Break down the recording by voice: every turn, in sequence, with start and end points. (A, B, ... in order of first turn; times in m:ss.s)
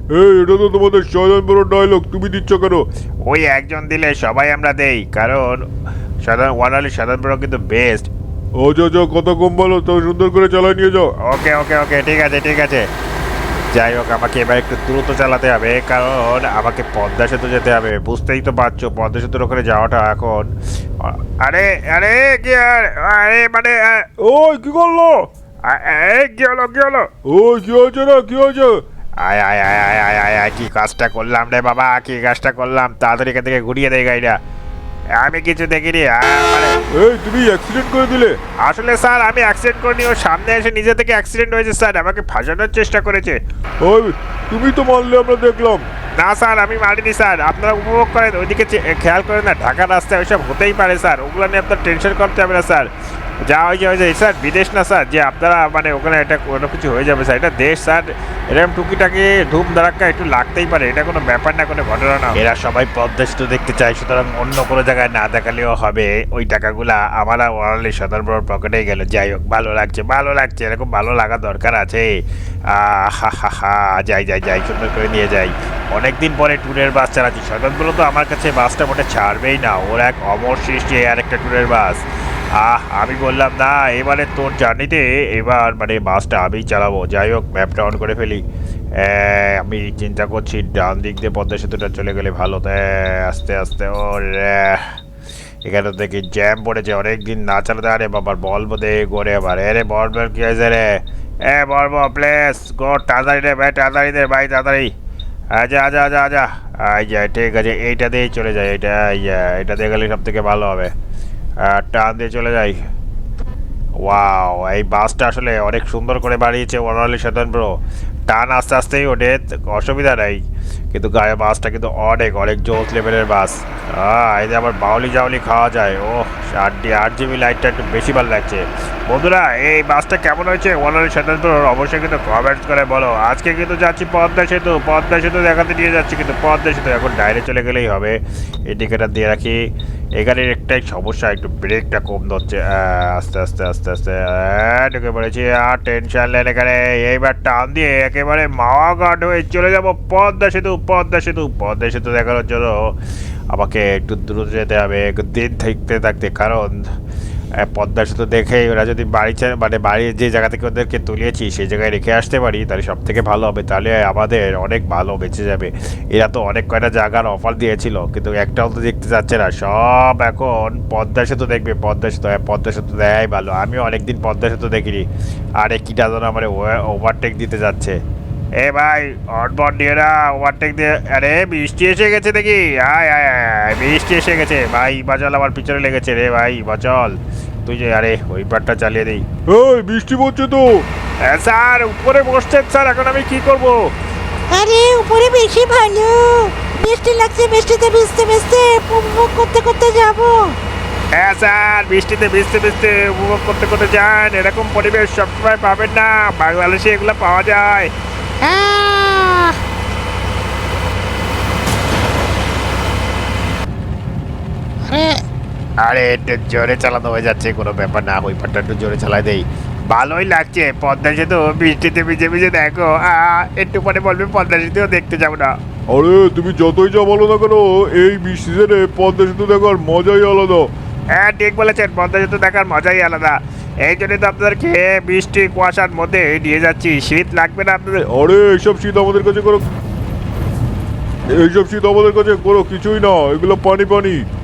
0:00.1-0:02.8 A
0:03.2-0:05.7 B
0:06.2-0:08.1 B
0:08.6-0:11.1 A
0:11.2-0:12.9 B
0:13.7-0:20.5 B
0:21.0-0:24.1 B
0:24.2-0:25.3 A
0:25.6-0:27.1 B
0:27.2-0:28.8 A
0:29.2-0:34.4 B
0:35.2-0:36.8 B
0:36.9-0:38.4 A
0:38.6-0:43.4 B
0:43.8-0:45.9 A
0:46.2-0:52.9 B
0:53.4-1:28.4 B
1:29.0-1:35.0 B
1:35.6-1:44.9 B
1:45.5-1:50.9 B
1:51.6-1:52.8 B
1:54.0-2:19.6 B
2:20.2-2:33.0 B
2:33.5-2:36.9 B
2:37.6-2:55.0 B
2:55.6-2:58.0 B
2:58.6-3:09.2 B
3:09.5-3:10.8 A
3:11.2-3:13.9 B
3:14.5-3:20.6 C
3:21.1-3:27.9 B
3:28.4-3:29.6 C
3:34.9-3:35.1 C
3:35.8-3:45.6 B
3:45.9-3:50.7 A
3:51.1-3:58.0 B
3:58.1-3:59.7 A
4:01.3-4:04.2 A